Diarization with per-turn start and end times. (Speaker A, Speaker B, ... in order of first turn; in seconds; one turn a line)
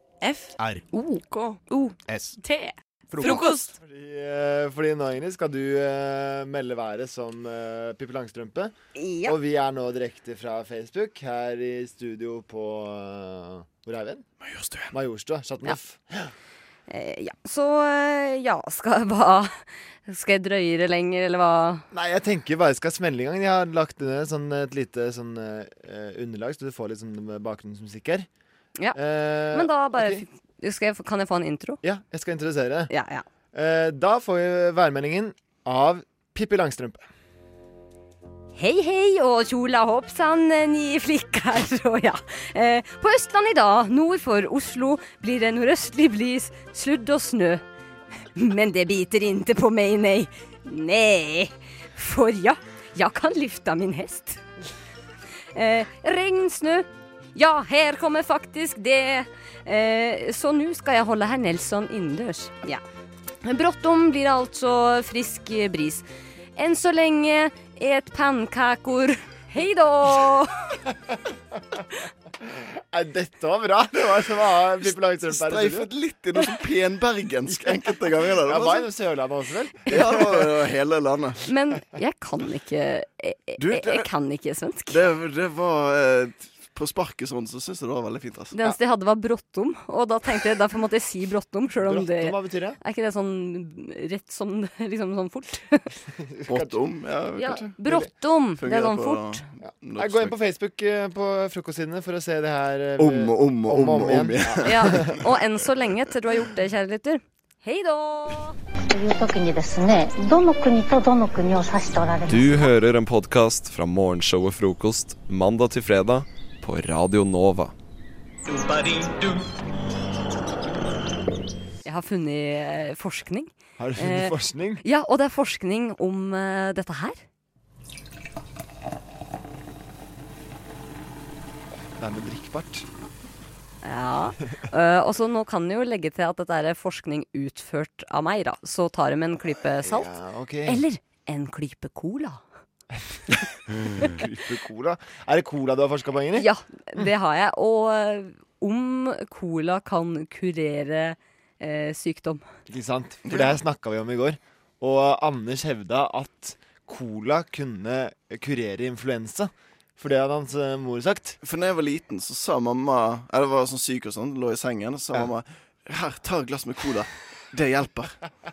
Speaker A: 0.3-3.7
Speaker B: 3.1-8.7
Speaker C: 8.9-9.4
Speaker B: 9.2-14.3
Speaker D: 14.4-14.9
Speaker B: 14.9-16.3
Speaker C: 16.9-21.9
Speaker B: 21.9-28.3
Speaker C: 28.8-31.8
Speaker B: 28.9-30.2
Speaker B: 31.8-32.9
Speaker C: 32.9-33.3
Speaker B: 33.5-37.1
Speaker C: 38.6-47.6
Speaker C: 48.4-54.5
Speaker C: 55.5-62.8
Speaker C: 63.4-70.6
Speaker B: 72.9-75.9
Speaker D: 75.2-78.9
Speaker B: 77.5-80.5
Speaker D: 79.9-81.4
Speaker C: 81.5-85.0
Speaker D: 83.6-84.0
Speaker D: 84.9-88.6
Speaker C: 88.5-95.9
Speaker B: 91.8-92.8
Speaker B: 96.3-96.8
Speaker D: 96.5-97.7
Speaker C: 97.4-99.4
Speaker B: 97.8-98.1
Speaker D: 98.6-100.4
Speaker B: 99.6-105.2
Speaker D: 103.0-104.8
Speaker C: 104.7-108.6
Speaker E: 108.9-112.6
Speaker F: 112.3-117.7
Speaker C: 121.8-127.2
Speaker B: 123.8-124.8
Speaker B: 132.0-132.9
Speaker C: 133.8-140.1
Speaker B: 139.8-140.8
Speaker C: 140.7-142.4
Speaker B: 143.3-146.5
Speaker C: 146.3-152.4
Speaker B: 152.7-161.4
Speaker D: 153.3-153.6
Speaker D: 161.4-168.2